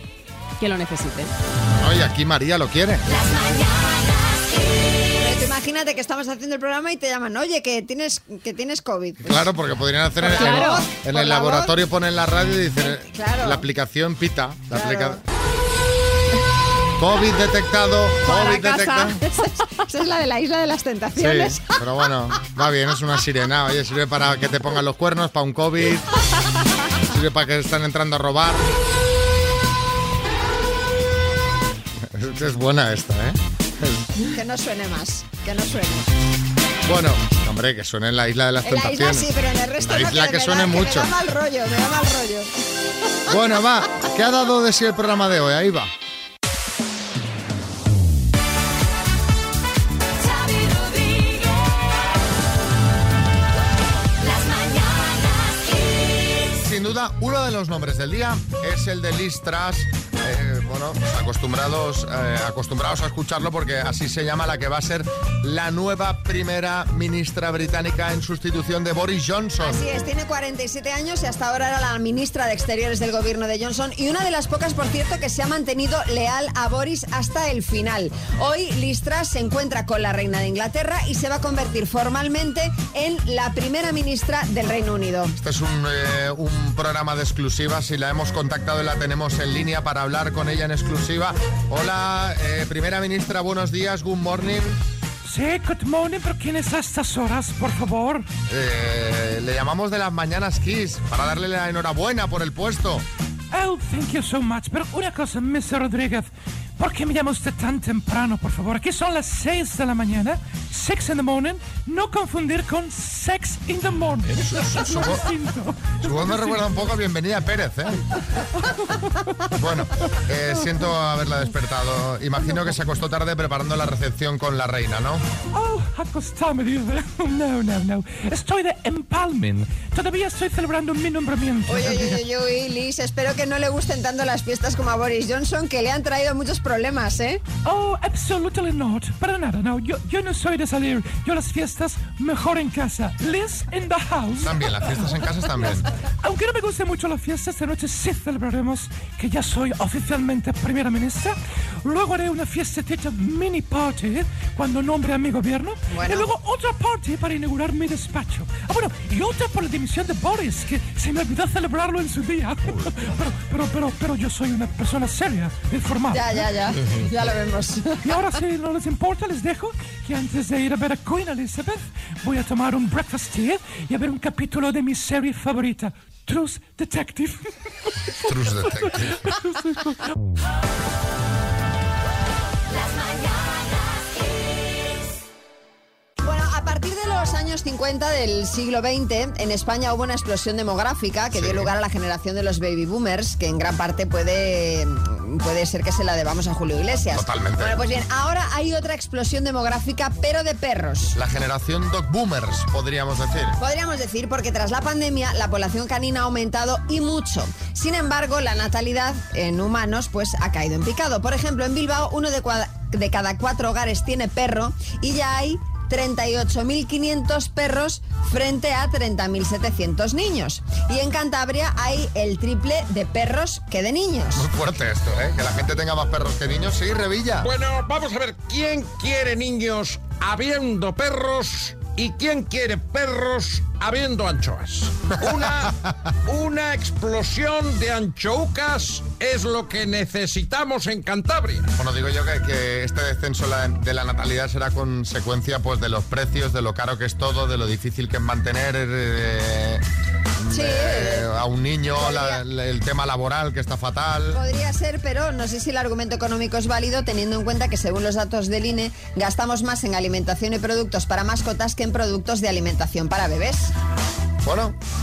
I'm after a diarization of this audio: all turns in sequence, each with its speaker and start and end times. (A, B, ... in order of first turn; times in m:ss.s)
0:00.6-0:01.3 A
0:01.7-0:03.2 B
0:05.2-0:09.5 C
0:09.2-0:15.2 B
0:10.2-0:11.7 C
0:10.3-0:10.8 A
0:12.8-0:13.6 C
0:14.7-0:15.2 C
0:17.0-0:19.2 B
0:18.3-0:19.1 A
0:19.2-0:21.7 C
0:21.2-0:26.1 B
0:27.0-0:28.7 B
0:32.0-0:34.2 B
0:34.3-0:36.1 C
0:36.8-0:39.3 B
0:38.6-0:42.5 C
0:39.8-0:41.1 B
0:43.3-0:45.9 B
0:56.5-1:09.8 B
1:09.6-1:25.4 C
1:25.4-1:34.8 B
1:35.2-1:38.3 D
1:38.5-1:43.0 B
1:43.5-1:56.6 D
1:54.3-1:55.2 B
1:56.0-1:58.0 B
1:59.5-2:05.2 B
2:05.5-2:12.2 D
2:11.7-2:17.4 C
2:17.6-2:24.6 D
2:24.4-2:25.9 B
2:26.2-2:46.5 D
2:35.9-2:36.3 C
2:46.1-2:48.0 C
2:48.0-2:57.4 D
2:58.2-2:59.2 B
2:59.5-2:59.9 D
3:06.2-3:21.1 C
3:11.3-3:11.7 B
3:17.1-3:17.8 B
3:21.1-3:23.6 B
3:23.6-3:44.4 C
3:44.3-3:47.5 B
3:47.4-3:55.7 E
3:55.3-3:55.9 B
3:56.2-4:01.7 E
4:01.8-4:09.8 B
4:10.4-4:14.4 B
4:10.5-4:11.3 C
4:12.0-4:12.4 C
4:14.3-4:23.7 C
4:24.4-4:24.8 B